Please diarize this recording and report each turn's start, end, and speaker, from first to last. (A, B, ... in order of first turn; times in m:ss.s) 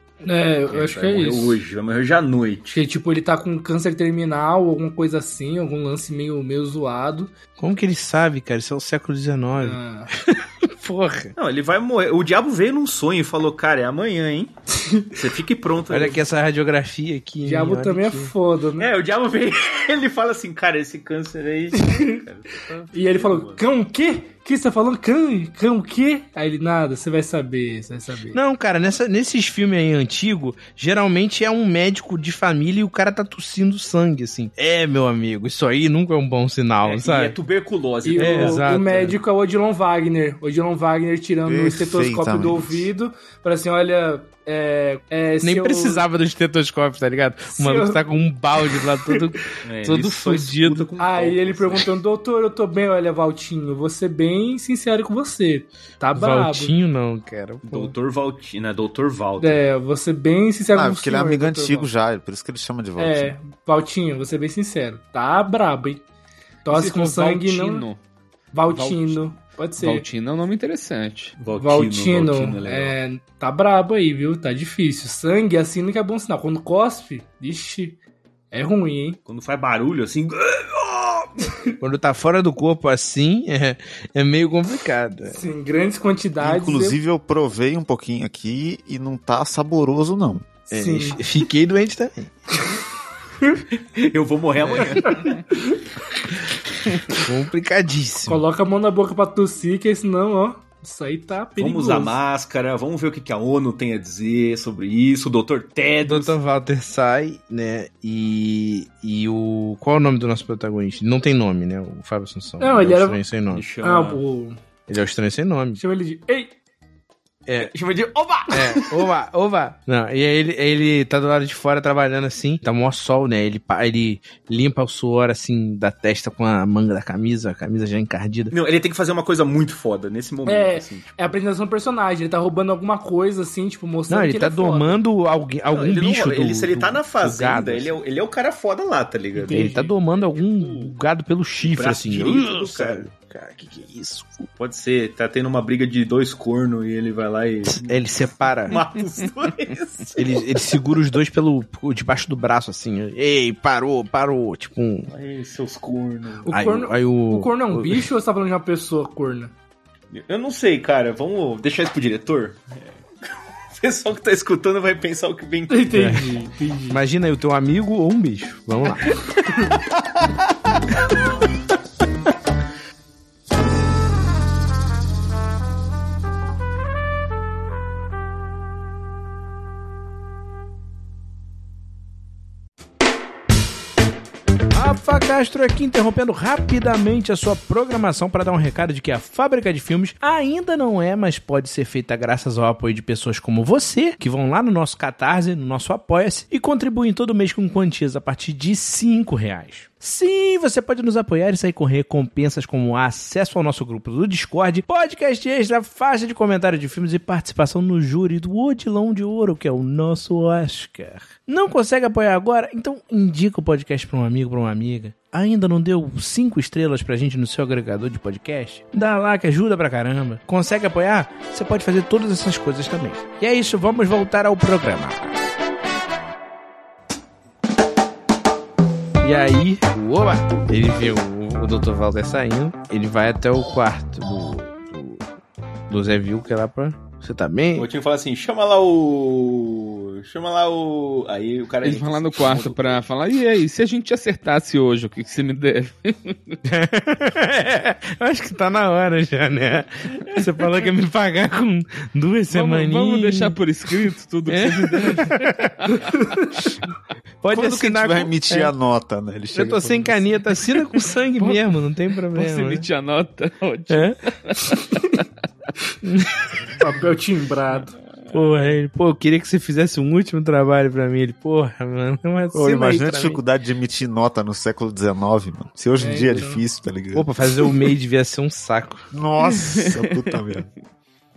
0:00.2-0:01.6 A
0:00.7-0:02.8 B
0:02.7-0:07.3 A
0:07.6-0:11.4 C
0:09.5-0:10.1 A
0:11.4-0:14.5 B
0:14.7-0:15.2 A
0:15.2-0:16.2 B
0:15.9-0:18.3 C
0:17.4-0:18.9 A
0:18.8-0:23.6 B
0:21.7-0:22.2 A
0:22.9-0:28.4 A
0:28.3-0:37.4 C
0:36.8-0:38.8 B
0:38.0-0:46.0 A
0:38.2-0:39.2 C
0:41.4-0:42.9 D
0:45.4-0:50.9 C
0:47.5-0:48.0 A
0:48.6-0:49.2 A
0:49.6-0:52.0 B
0:51.0-0:56.8 A
0:56.2-0:57.9 C
0:57.7-0:59.6 B
0:59.4-1:01.9 A
1:00.7-1:03.4 D
1:03.0-1:06.0 A
1:06.6-1:07.9 A
1:06.7-1:08.0 E
1:08.5-1:10.0 A
1:08.7-1:11.4 E
1:11.4-1:13.0 B
1:11.5-1:18.0 A
1:18.5-1:19.2 A
1:19.2-1:21.6 B
1:21.8-1:25.4 C
1:25.3-1:27.0 A
1:26.4-1:30.5 D
1:30.7-1:32.3 C
1:30.7-1:31.2 A
1:33.8-1:35.4 B
1:34.6-1:35.1 C
1:34.8-1:35.8 A
1:37.2-1:38.4 C
1:38.3-1:42.2 A
1:41.6-1:46.4 B
1:46.0-1:53.6 C
1:52.6-1:53.2 A
1:53.5-1:54.2 B
1:53.8-1:54.6 A
1:54.9-1:55.8 C
1:55.8-1:56.5 A
1:57.5-1:57.7 C
1:57.6-1:59.0 B
1:58.5-2:08.5 C
2:08.5-2:11.4 B
2:10.4-2:15.0 A
2:14.1-2:17.9 C
2:15.7-2:21.0 B
2:19.4-2:19.9 A
2:19.5-2:24.5 C
2:21.6-2:23.1 B
2:24.6-2:28.1 B
2:27.6-2:28.8 C
2:28.7-2:30.6 B
2:30.2-2:35.1 C
2:35.1-2:36.5 B
2:36.4-2:39.5 A
2:36.5-2:38.1 C
2:40.1-2:43.0 B
2:43.8-2:46.4 B
2:45.7-2:47.0 A
2:45.9-2:46.4 C
2:46.9-2:49.1 C
3:04.7-3:45.2 C
3:49.2-3:55.2 C
3:55.9-3:57.9 C
3:57.8-4:03.0 B
4:01.8-4:06.6 E
4:06.6-4:13.6 C
4:12.5-4:16.0 E
4:14.5-4:15.9 C
4:17.4-4:18.7 C
4:17.5-4:20.3 D
4:19.5-4:22.9 C
4:21.4-4:21.7 E
4:22.3-4:25.2 E
4:23.9-4:24.2 C
4:26.0-4:26.3 C
4:26.7-4:28.0 A
4:28.3-4:33.4 C
4:32.5-4:37.3 D
4:36.0-4:36.6 A
4:37.1-4:39.1 C
4:39.1-4:40.7 D
4:39.4-4:40.4 E